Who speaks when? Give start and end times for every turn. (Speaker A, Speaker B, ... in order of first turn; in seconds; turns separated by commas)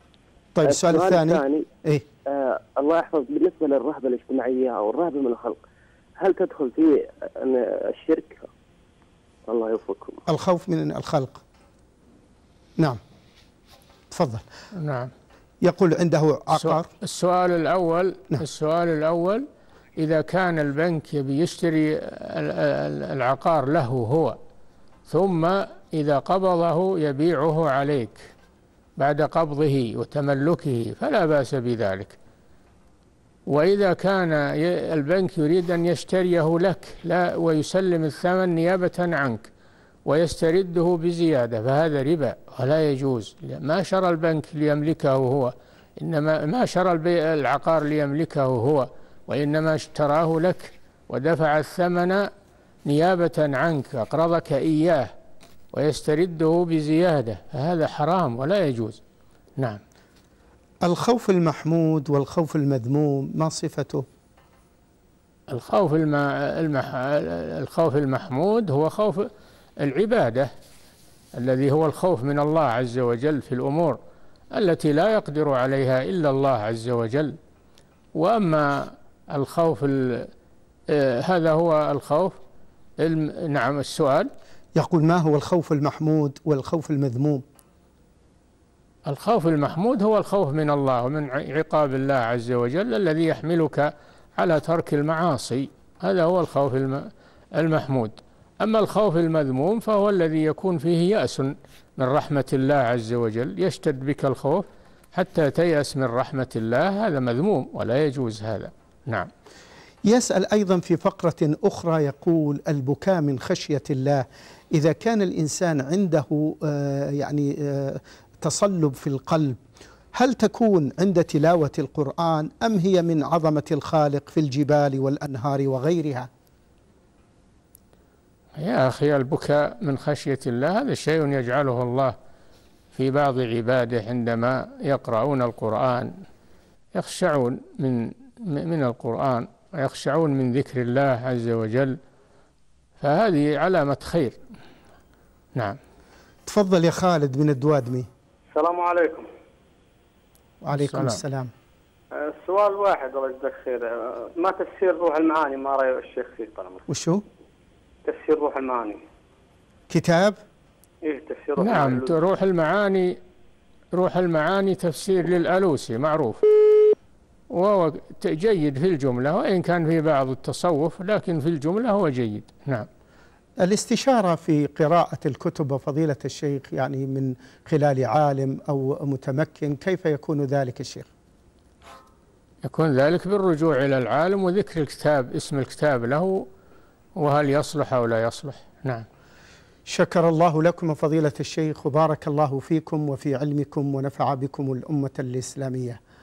Speaker A: 0.6-2.0, Speaker B: 0.6-1.6, Speaker B: 2.3-5.5, Speaker B: 6.2-8.4, Speaker B: 9.5-10.2, Speaker A: 10.3-11.4, Speaker A: 14.1-14.4, Speaker C: 14.7-15.1, Speaker A: 15.6-16.9, Speaker C: 16.5-19.4, Speaker C: 20.0-24.4, Speaker C: 25.1-28.3, Speaker C: 29.0-32.2, Speaker C: 33.5-39.5, Speaker C: 40.0-52.3, Speaker C: 52.9-55.1, Speaker C: 55.7-59.0, Speaker A: 60.8-64.0, Speaker C: 65.5-69.3, Speaker C: 69.8-70.5, Speaker C: 71.3-74.0, Speaker C: 74.5-77.4, Speaker C: 78.1-80.3, Speaker C: 80.9-82.4, Speaker C: 83.0-84.3, Speaker A: 84.8-87.4, Speaker C: 89.1-109.3, Speaker A: 110.0-119.6, Speaker A: 120.1-126.3, Speaker C: 128.6-132.1, Speaker C: 132.9-136.1, Speaker C: 136.9-142.0, Speaker C: 143.0-144.4, Speaker A: 146.4-148.1, Speaker D: 148.5-149.2, Speaker A: 150.6-151.5, Speaker C: 150.7-151.2, Speaker D: 152.3-153.9, Speaker D: 154.4-156.8, Speaker A: 156.9-157.2, Speaker D: 158.1-159.0, Speaker A: 159.9-160.4, Speaker D: 161.1-162.1, Speaker C: 161.6-163.2, Speaker C: 163.9-166.4, Speaker C: 167.5-172.9, Speaker A: 173.6-181.1, Speaker C: 182.6-186.5, Speaker C: 187.2-189.1, Speaker A: 189.9-196.0